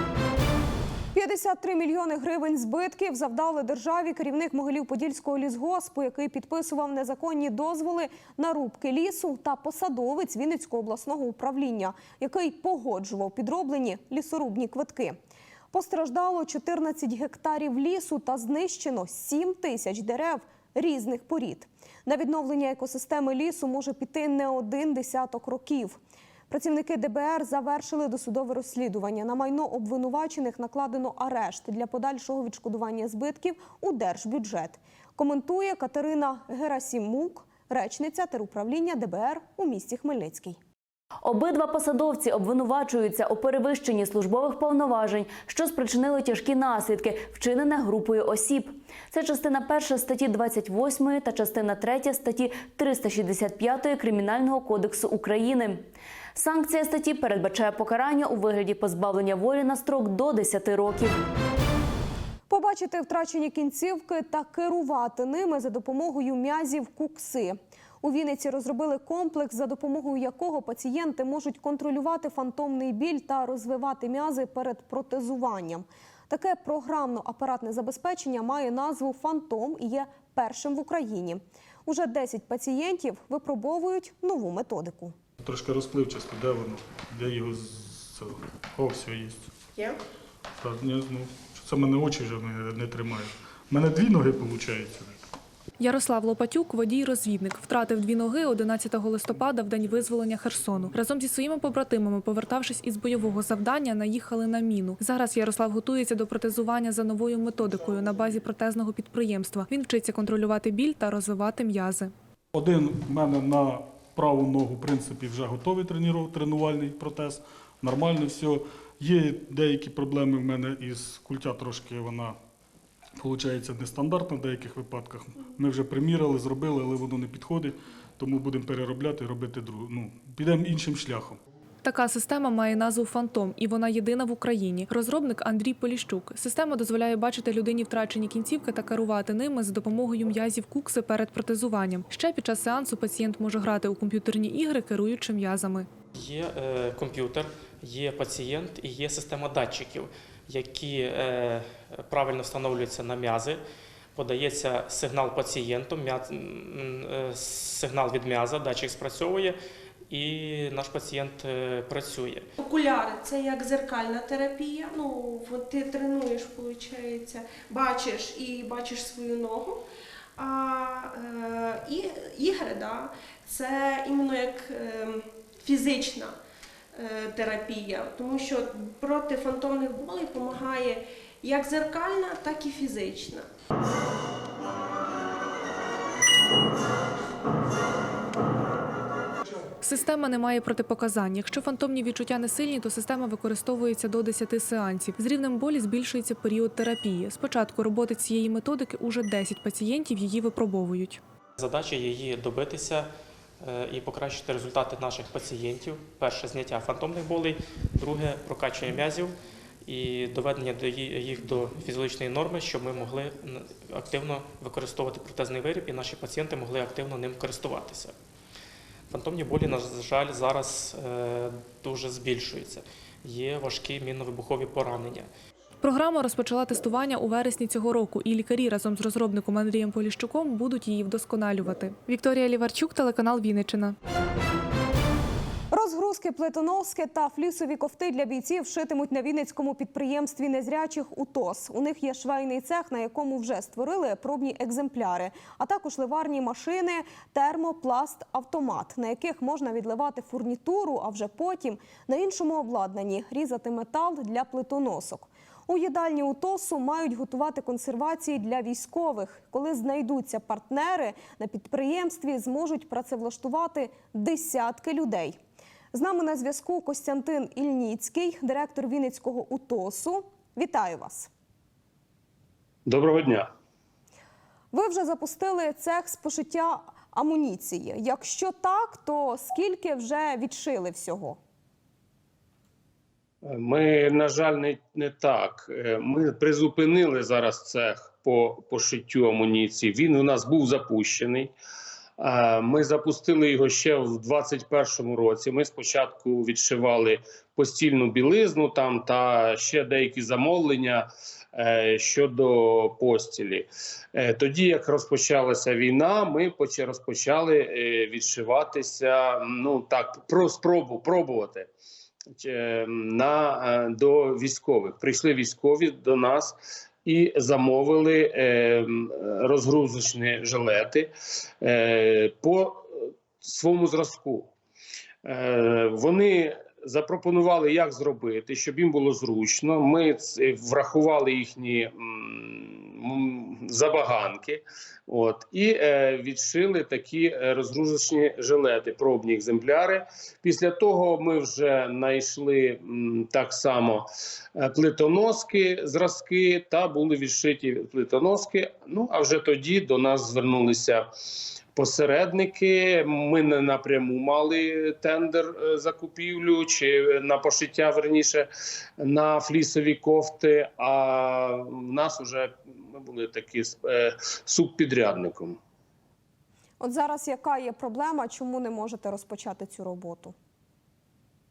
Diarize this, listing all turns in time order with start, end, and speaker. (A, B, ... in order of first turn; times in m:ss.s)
0:01.1-0:15.2 A
0:15.7-0:26.0 A
0:26.5-0:40.6 A
0:41.2-0:55.8 B
0:56.4-1:01.2 B
1:02.5-1:25.1 A
1:25.4-1:29.5 C
1:30.6-1:35.2 C
1:35.8-1:52.1 D
1:52.5-2:02.4 C
2:03.2-2:11.4 C
2:11.8-2:25.9 D
2:26.1-2:33.6 E
2:34.1-2:39.6 E
2:40.1-2:42.4 E
2:42.6-2:49.8 F
2:50.4-2:56.4 F
2:56.9-3:03.5 F
3:09.8-3:21.2 D
3:21.6-3:23.1 E
3:23.6-3:29.3 E
3:29.8-3:38.1 E
3:39.1-3:45.3 E
3:45.8-3:53.9 D
3:55.7-4:25.4 A
4:25.9-4:31.3 A
4:32.8-4:33.5 G
4:34.7-4:41.4 A
4:43.4-4:51.5 G
4:52.2-5:11.7 G
5:12.3-5:21.1 G
5:21.6-5:24.5 G
5:25.2-5:51.0 G
5:51.7-5:58.5 G
5:59.0-6:05.6 G
6:06.8-6:10.3 A